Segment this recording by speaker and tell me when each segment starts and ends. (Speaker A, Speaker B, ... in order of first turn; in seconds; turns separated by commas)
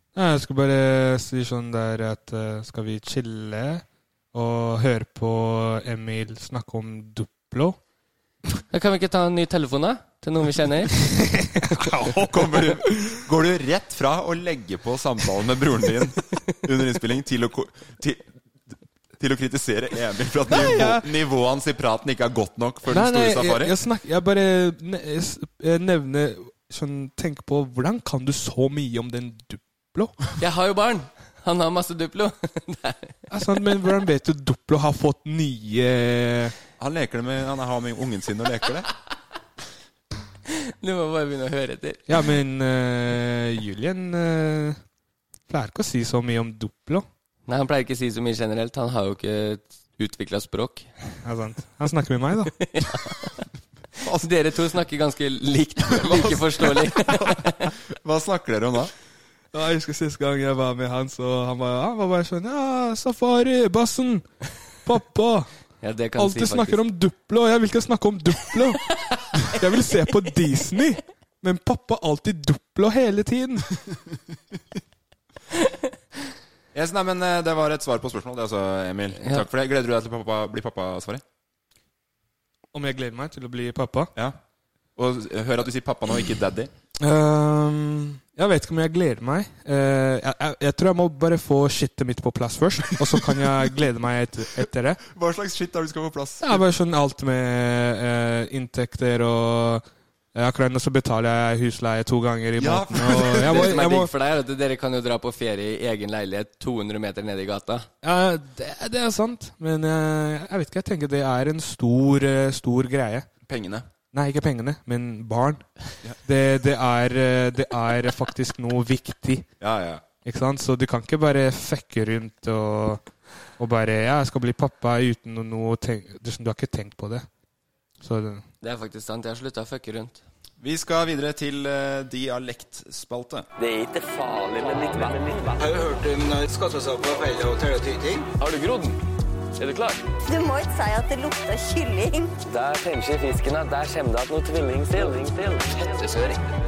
Speaker A: 0.1-7.8, Speaker B: 8.7-10.9, Speaker A: 11.0-13.2, Speaker C: 12.1-18.2, Speaker C: 19.2-23.7, Speaker A: 20.5-21.1, Speaker A: 22.9-30.1, Speaker B: 30.4-33.1, Speaker A: 33.3-36.5, Speaker C: 36.8-38.9, Speaker B: 40.8-42.2, Speaker A: 42.1-44.8, Speaker A: 45.5-47.0, Speaker B: 47.5-50.9, Speaker A: 51.2-52.5, Speaker B: 52.6-53.3, Speaker B: 54.1-57.6, Speaker C: 55.9-58.9, Speaker A: 59.5-64.2, Speaker A: 64.8-65.5, Speaker B: 65.8-66.8, Speaker A: 66.2-68.8, Speaker A: 69.5-73.7, Speaker C: 76.7-81.2, Speaker B: 79.2-79.5, Speaker A: 82.7-84.1, Speaker C: 85.0-86.7, Speaker A: 87.0-95.0, Speaker C: 95.1-96.6, Speaker A: 96.4-99.8, Speaker A: 100.3-104.1, Speaker C: 102.5-103.9, Speaker B: 103.4-107.9, Speaker A: 108.0-113.2, Speaker C: 113.5-113.9, Speaker A: 114.1-115.6, Speaker A: 116.2-119.5, Speaker C: 119.6-120.0, Speaker A: 120.2-123.0, Speaker A: 123.6-127.2, Speaker A: 128.0-128.4, Speaker B: 128.6-130.2, Speaker C: 130.6-133.5, Speaker D: 133.6-135.5, Speaker E: 135.6-138.3, Speaker B: 138.4-138.9, Speaker D: 139.6-139.9, Speaker B: 139.7-139.9, Speaker F: 140.2-142.3, Speaker D: 142.5-146.1